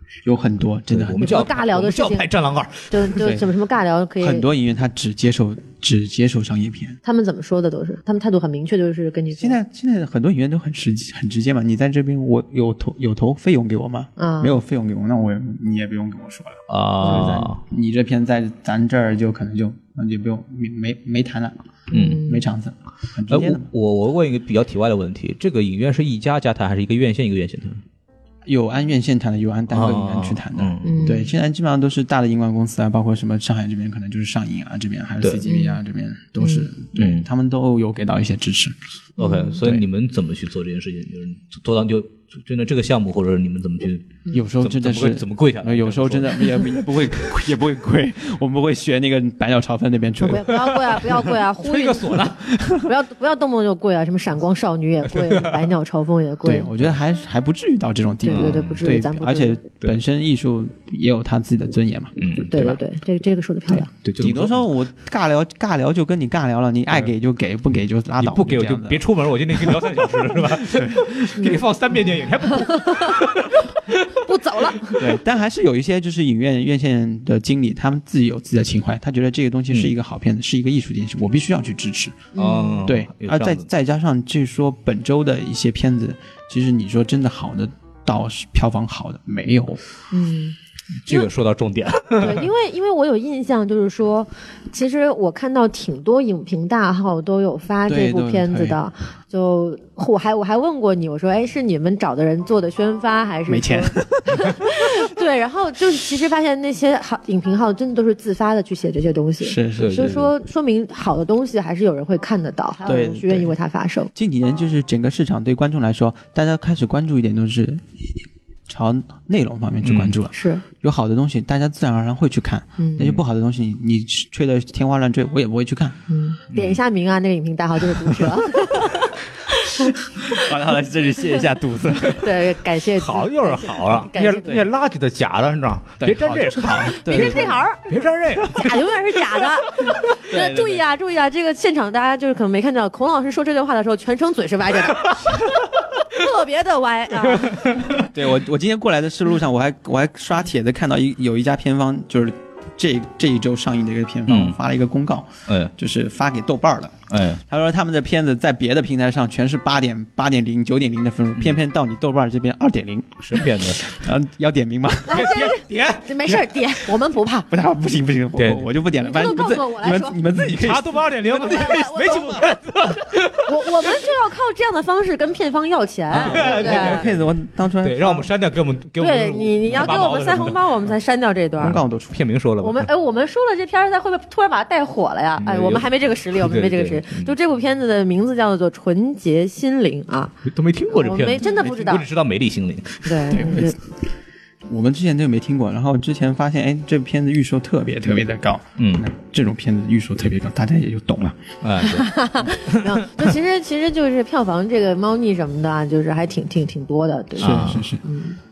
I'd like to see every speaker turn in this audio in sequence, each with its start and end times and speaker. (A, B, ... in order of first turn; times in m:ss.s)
0:00.2-0:01.4 A
0:00.9-0:03.4 B
0:01.2-0:02.3 C
0:02.9-0:04.5 C
0:03.2-0:03.4 A
0:04.2-0:07.0 A
0:07.0-0:09.6 C
0:09.3-0:21.6 A
0:14.2-0:14.6 C
0:16.7-0:17.6 B
0:17.0-0:17.4 C
0:21.9-0:22.4 C
0:21.9-0:22.2 B
0:22.2-0:23.7 A
0:23.3-0:27.8 B
0:28.4-0:38.8 A
0:29.7-0:31.1 B
0:30.8-0:31.3 C
0:35.4-0:35.8 C
0:37.0-0:37.2 B
0:39.2-0:39.6 C
0:39.2-0:46.8 B
0:44.3-0:50.6 A
0:50.2-0:52.3 C
0:50.3-0:52.8 B
0:52.8-0:56.7 C
0:55.1-0:55.7 B
0:56.4-1:02.1 A
0:58.2-0:59.6 C
0:58.3-0:58.8 B
1:02.2-1:02.8 B
1:02.4-1:03.9 C
1:03.7-1:09.0 A
1:04.0-1:04.7 B
1:08.2-1:14.2 B
1:09.5-1:11.6 A
1:12.5-1:13.6 C
1:14.1-1:15.0 C
1:15.0-1:22.2 A
1:22.3-1:22.8 C
1:22.4-1:23.6 B
1:22.8-1:29.8 A
1:30.1-1:30.5 C
1:31.0-1:32.5 B
1:32.1-1:54.1 C
1:37.8-1:38.8 A
1:43.5-1:44.6 A
1:49.4-1:50.2 A
1:49.8-1:50.3 B
1:52.8-1:53.5 A
1:54.1-2:06.0 A
1:59.8-2:00.2 B
2:00.3-2:00.6 C
2:02.8-2:03.0 C
2:06.1-2:09.1 C
2:06.5-2:06.8 B
2:10.2-2:12.2 A
2:12.2-2:14.6 C
2:13.0-2:20.6 B
2:16.0-2:17.6 A
2:17.0-2:17.8 C
2:18.5-2:27.5 C
2:20.3-2:20.6 A
2:27.4-2:27.9 B
2:27.9-2:45.3 A
2:34.3-2:34.6 B
2:35.5-2:35.7 B
2:37.1-2:37.4 B
2:43.2-2:43.9 B
2:45.1-2:47.5 C
2:45.1-2:46.5 B
2:47.5-2:51.1 A
2:48.4-2:48.7 B
2:49.0-2:50.2 C
2:50.3-2:53.5 B
2:51.2-2:52.6 C
2:53.4-2:57.0 C
2:56.1-2:58.3 A
2:56.2-2:57.1 B
2:57.8-3:00.9 B
2:59.0-3:01.8 C
3:01.6-3:02.2 A
3:01.6-3:02.9 B
3:02.6-3:10.4 C
3:05.4-3:07.4 B
3:10.4-3:13.2 B
3:10.9-3:12.0 C
3:11.5-3:11.9 A
3:13.0-3:13.8 C
3:13.3-3:13.8 A
3:14.7-3:21.4 A
3:18.8-3:19.1 B
3:21.6-3:22.1 B
3:21.8-3:28.4 C
3:22.7-3:23.3 B
3:27.4-3:28.0 A
3:27.4-3:27.9 B